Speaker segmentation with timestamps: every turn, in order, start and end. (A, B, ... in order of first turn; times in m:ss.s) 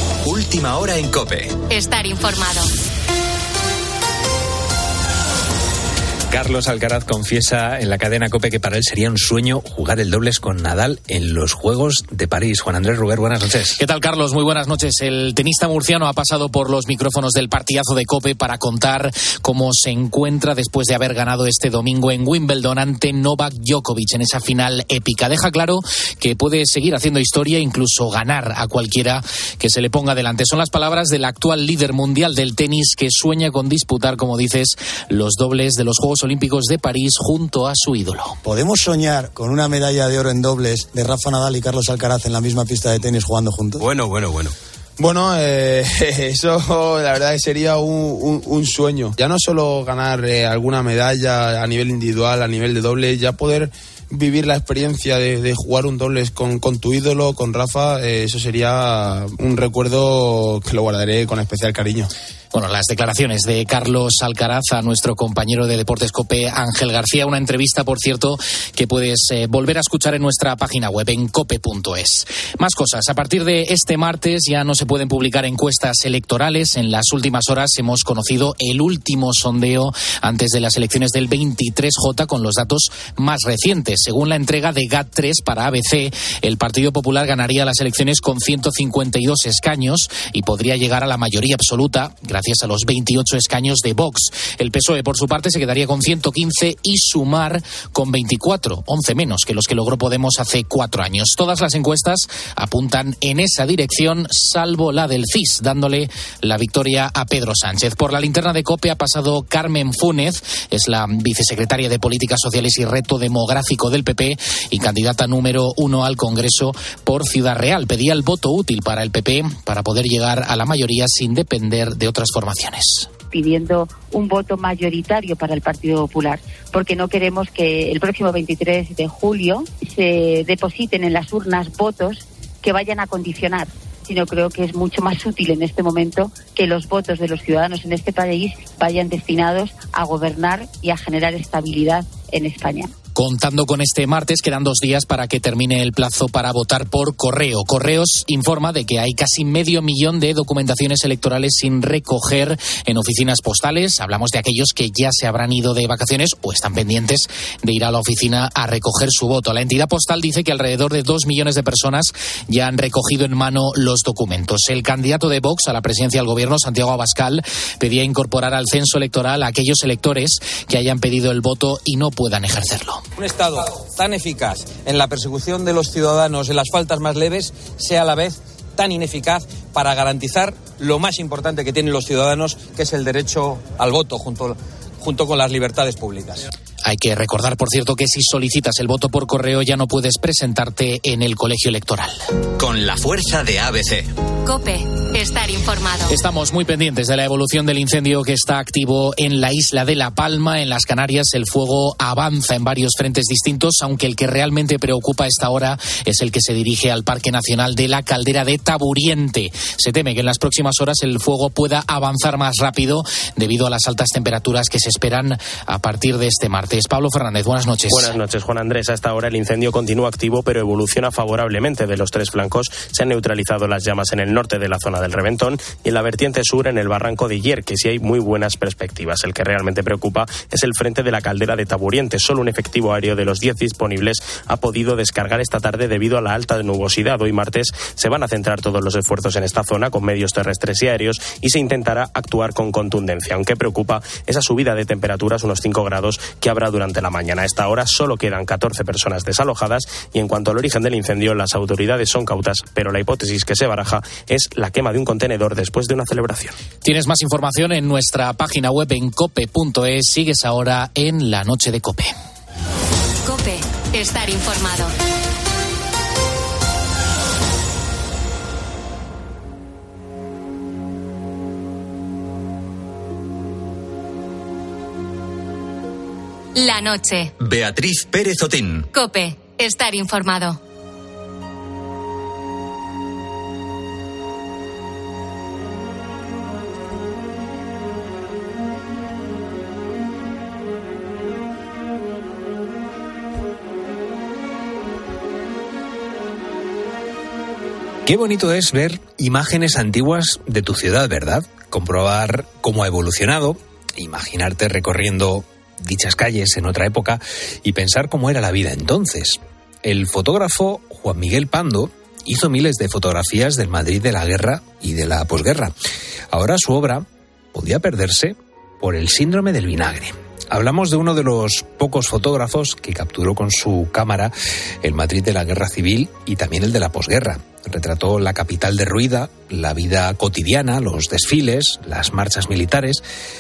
0:00.2-0:01.5 A
0:01.7-0:02.7 B
0:06.3-0:13.8 C
0:13.8-0:38.4 D
0:38.8-0:43.6 E
0:45.0-1:02.1 F
1:02.5-2:03.1 D
2:03.3-2:22.9 G
2:23.2-2:53.0 D
2:53.2-3:06.4 H
3:06.8-3:12.2 D
3:12.6-3:14.1 A
3:14.4-3:16.1 B
3:16.1-3:38.1 D
3:37.9-4:16.6 I
4:16.8-4:22.2 D
4:23.2-4:24.9 B
4:36.6-4:37.3 B
4:37.4-4:38.9 A
4:38.9-4:40.6 B
4:58.1-5:15.7 C
5:16.3-5:33.0 C